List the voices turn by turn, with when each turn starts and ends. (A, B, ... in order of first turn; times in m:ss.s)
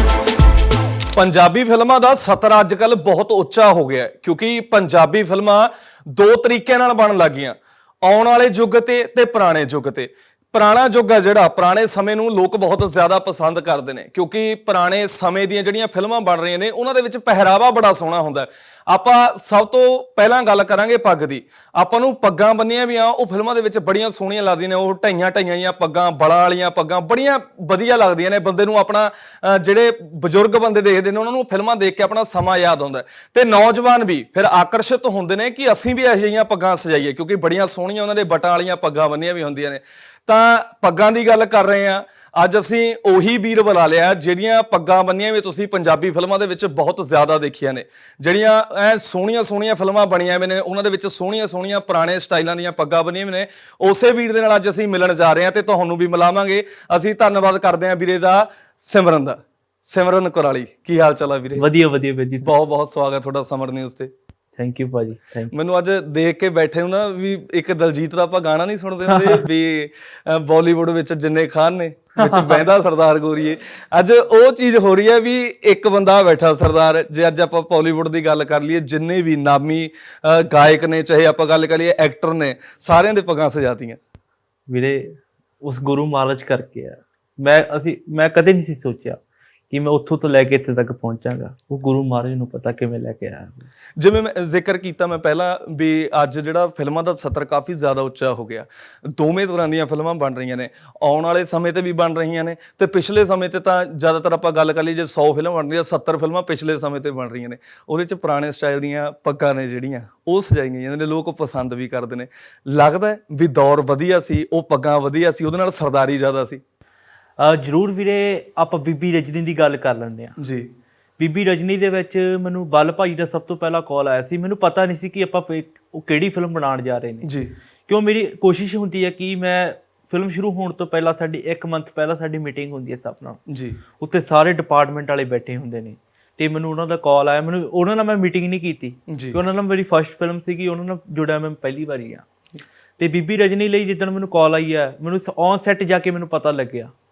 0:01.1-1:01.6 A
1:01.6-1:02.5 B
1:02.4-1:04.1 A
1:04.6-1:05.5 B
1:05.5-1:24.0 A
1:09.1-1:09.4 B
1:12.2-1:12.6 B
1:24.7-1:29.2 B
1:29.7-1:33.7 B
1:34.0-1:56.6 A
1:57.4-2:00.4 B
2:00.4-2:00.7 A
2:01.2-2:07.3 B
2:07.2-2:07.5 A
2:07.9-2:13.4 B
2:13.5-2:13.8 A
2:14.0-2:22.2 B
2:19.1-2:19.4 A
2:23.0-2:26.9 B